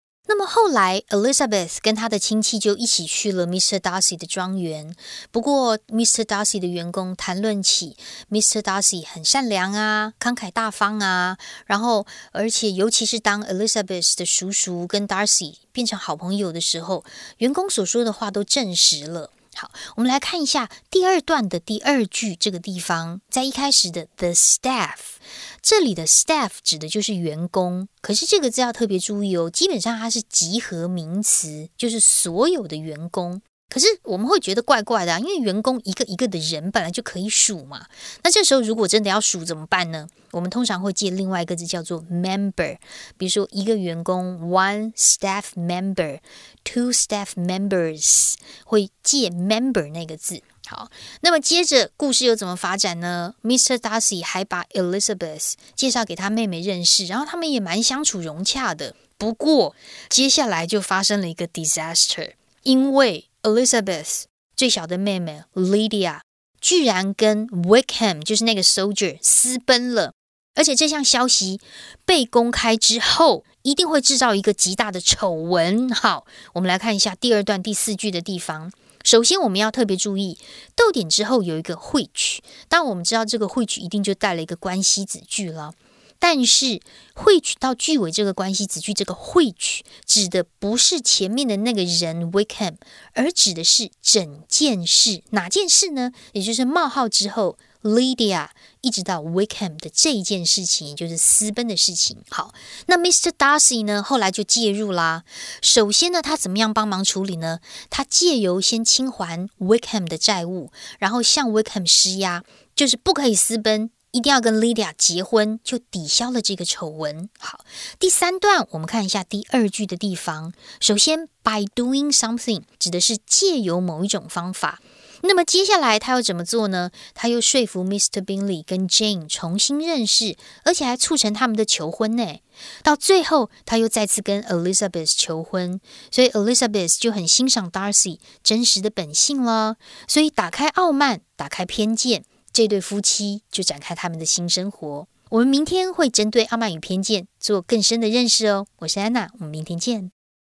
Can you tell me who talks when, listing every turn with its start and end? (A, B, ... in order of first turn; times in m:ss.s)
0:00.3-2:30.1 A